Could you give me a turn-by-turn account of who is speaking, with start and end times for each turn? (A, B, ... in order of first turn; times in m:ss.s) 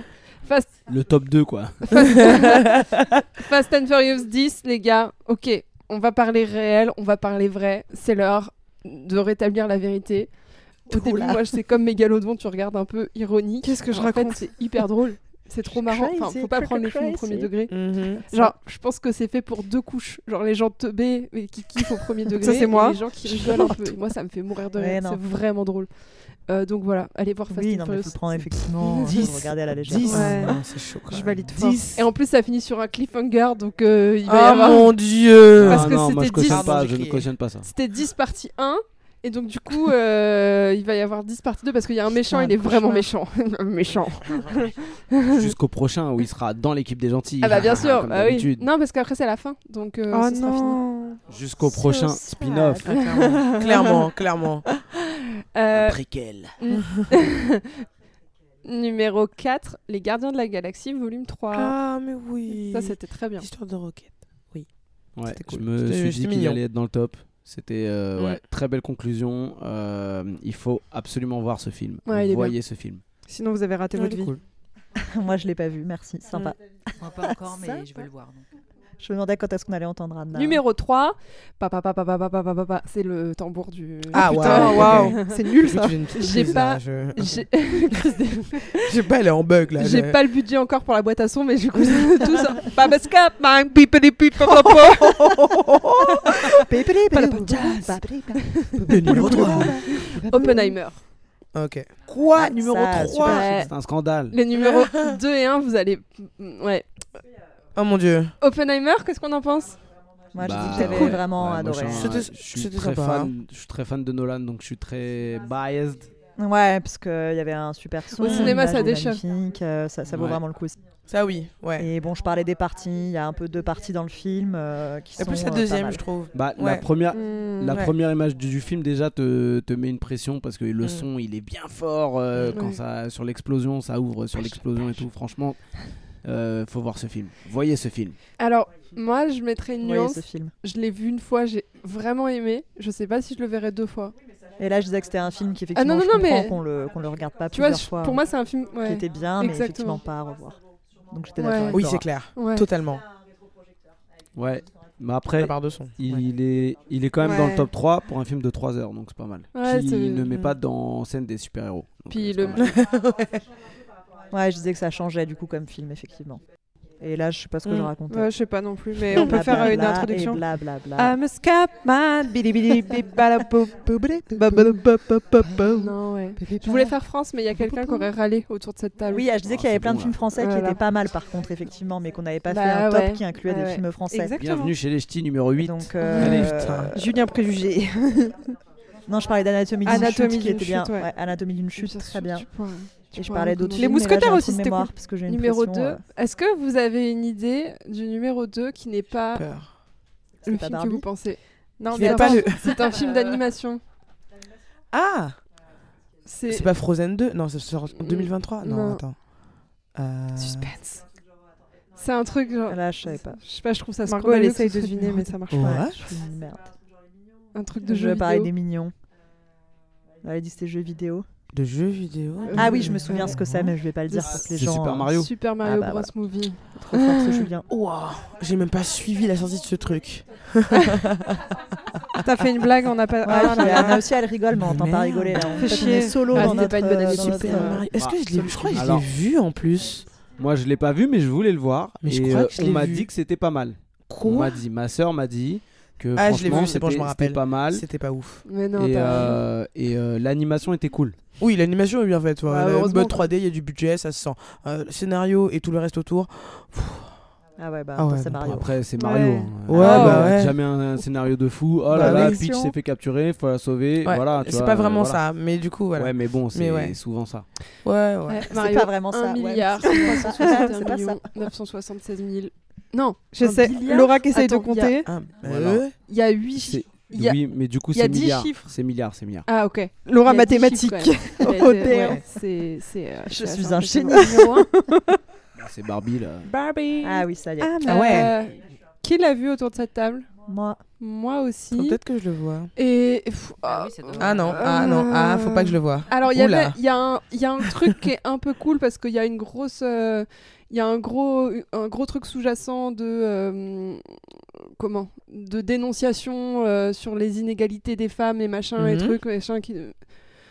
0:00.4-0:00.7 A
0:00.9-0:02.3 B
0:01.9-0:02.7 A
0:02.2-0:02.9 C
0:03.4-0:29.1 A
0:10.9-0:11.4 D
0:13.6-0:14.8 E
0:15.6-0:17.5 D
0:17.7-0:18.3 C
0:22.4-0:23.0 E
0:24.7-0:25.2 D
0:27.5-0:30.5 D
0:29.1-0:32.0 C
0:30.0-0:30.4 A
0:30.0-0:31.9 E
0:31.9-0:35.1 A
0:34.3-0:37.3 C
0:35.6-0:37.7 B
0:35.6-0:36.8 A
0:37.6-0:45.5 A
0:42.3-0:42.8 D
0:42.6-0:43.0 E
0:45.2-0:48.7 B
0:47.4-0:50.8 A
0:50.1-0:51.2 E
0:51.3-0:52.9 B
0:51.6-0:52.9 D
0:52.8-0:54.6 C
0:53.6-0:54.0 A
0:55.5-0:56.0 A
0:55.7-0:56.5 B
0:56.6-0:57.6 A
0:56.8-0:57.0 C
0:58.6-1:01.8 A
1:01.5-1:06.6 C
1:02.5-1:03.5 A
1:05.1-1:13.0 B
1:12.0-1:12.6 A
1:13.2-1:14.3 E
1:13.9-1:14.4 C
1:15.0-1:17.9 D
1:17.0-1:18.4 F
1:19.0-1:20.6 D
1:20.3-1:25.5 A
1:24.1-1:27.5 C
1:24.2-1:26.3 E
1:26.1-1:28.9 A
1:28.8-1:30.2 C
1:29.8-1:35.3 A
1:32.7-1:35.0 E
1:35.1-1:36.4 C
1:36.6-1:40.8 D
1:37.2-1:37.6 C
1:38.8-1:39.8 C
1:39.0-1:39.9 B
1:39.9-1:41.0 A
1:41.5-1:41.9 C
1:42.1-1:44.3 B
1:42.3-1:43.7 D
1:43.2-1:43.7 A
1:44.3-1:46.9 A
1:44.5-1:45.2 C
1:47.7-1:48.3 C
1:48.4-1:49.8 A
1:50.3-1:52.2 D
1:50.4-1:56.1 B
1:50.6-1:51.2 A
1:51.9-1:53.3 C
1:56.4-2:00.8 D
1:58.1-1:59.2 A
1:58.2-1:58.7 C
2:00.1-2:00.4 B
2:01.1-2:01.9 C
2:01.8-2:06.0 D
2:05.2-2:06.8 C
2:06.3-2:18.2 B
2:07.1-2:07.8 E
2:10.8-2:11.1 C
2:12.5-2:12.8 A
2:14.3-2:15.0 C
2:18.4-2:24.1 A
2:19.8-2:20.5 D
2:24.6-2:28.2 D
2:25.7-2:26.6 A
2:27.5-2:30.0 A
2:28.8-2:32.1 D
2:31.4-2:31.8 A
2:31.7-2:33.0 C
2:32.3-2:32.7 A
2:34.4-2:42.8 B
2:35.4-2:36.2 C
2:37.2-2:37.6 A
2:37.2-2:37.7 E
2:39.5-2:40.3 A
2:40.3-2:40.5 C
2:42.1-2:42.7 A
2:42.6-2:43.4 C
2:44.3-2:46.4 D
2:47.0-2:51.2 D
2:47.6-2:50.4 E
2:50.9-2:56.9 E
2:54.2-2:54.8 D
2:55.7-2:59.3 A
2:57.6-2:58.1 E
2:59.1-3:04.3 D
2:59.4-3:00.2 B
3:00.4-3:00.8 E
3:02.5-3:04.7 A
3:04.2-3:04.7 E
3:04.4-3:06.7 B
3:05.6-3:07.2 D
3:06.1-3:06.9 C
3:06.9-3:08.4 E
3:09.1-3:16.0 D
3:09.8-3:11.1 A
3:09.8-3:10.3 E
3:11.8-3:19.8 A
3:13.7-3:14.6 E
3:19.3-3:19.7 C
3:20.4-3:21.1 D
3:20.4-3:23.8 A
3:21.8-3:23.3 E
3:21.9-3:22.7 C
3:24.9-3:25.4 C
3:26.2-3:26.7 A
3:26.5-3:29.3 C
3:28.0-3:29.0 A
3:29.9-3:30.7 C
3:30.4-3:30.9 E
3:32.0-3:35.8 A
3:32.7-3:33.4 D
3:34.0-3:35.7 E
3:35.5-3:36.2 C
3:35.5-3:36.7 D
3:37.5-3:38.5 A
3:37.8-3:38.9 D
3:40.2-3:41.2 D
3:41.5-3:43.7 C
3:42.4-3:43.1 A
3:42.5-3:47.7 D
3:44.1-3:44.4 A
3:44.2-3:45.3 B
3:45.1-3:47.4 A
3:47.7-3:51.4 C
3:52.2-3:54.0 E
3:53.2-3:54.0 A
3:53.2-3:57.8 D
3:54.5-4:00.1 C
3:55.6-3:57.5 E
3:55.6-3:58.8 A
3:57.9-3:59.1 B
3:58.4-3:58.8 E
4:00.4-4:07.8 B
4:02.0-4:03.1 C
4:04.1-4:04.6 C
4:06.2-4:08.5 C
4:08.4-4:09.4 A
4:08.8-4:11.2 B
4:09.1-4:09.4 C
4:11.4-4:17.1 C
4:12.5-4:13.3 A
4:17.6-4:18.7 D
4:18.0-4:18.7 C
4:18.4-4:25.2 B
4:19.0-4:20.1 E
4:19.6-4:20.6 C
4:19.7-4:20.4 A
4:21.9-4:22.4 C
4:21.9-4:22.8 D
4:24.0-4:27.0 C
4:25.9-4:27.5 B
4:27.8-4:28.5 C
4:28.3-4:35.0 A
4:28.5-4:31.5 D
4:33.3-4:35.1 E
4:35.0-4:35.9 C
4:35.4-4:35.8 B
4:36.1-4:37.4 A
4:36.6-4:39.5 B
4:37.9-4:38.7 A
4:39.4-4:44.7 A
4:40.0-4:42.2 E
4:41.9-4:42.2 C
4:43.3-4:44.4 D
4:44.1-4:45.1 E
4:45.5-4:46.5 B
4:46.4-4:47.3 A
4:47.0-4:47.9 D
4:47.6-4:48.3 E
4:47.8-4:50.3 A
4:47.8-4:48.3 C
4:50.4-4:50.8 D
4:51.0-4:52.0 A
4:51.7-4:52.7 C
4:52.8-5:04.2 A
4:53.6-4:54.9 F
4:54.2-4:56.8 C
5:04.8-5:10.3 A
5:08.8-5:09.2 C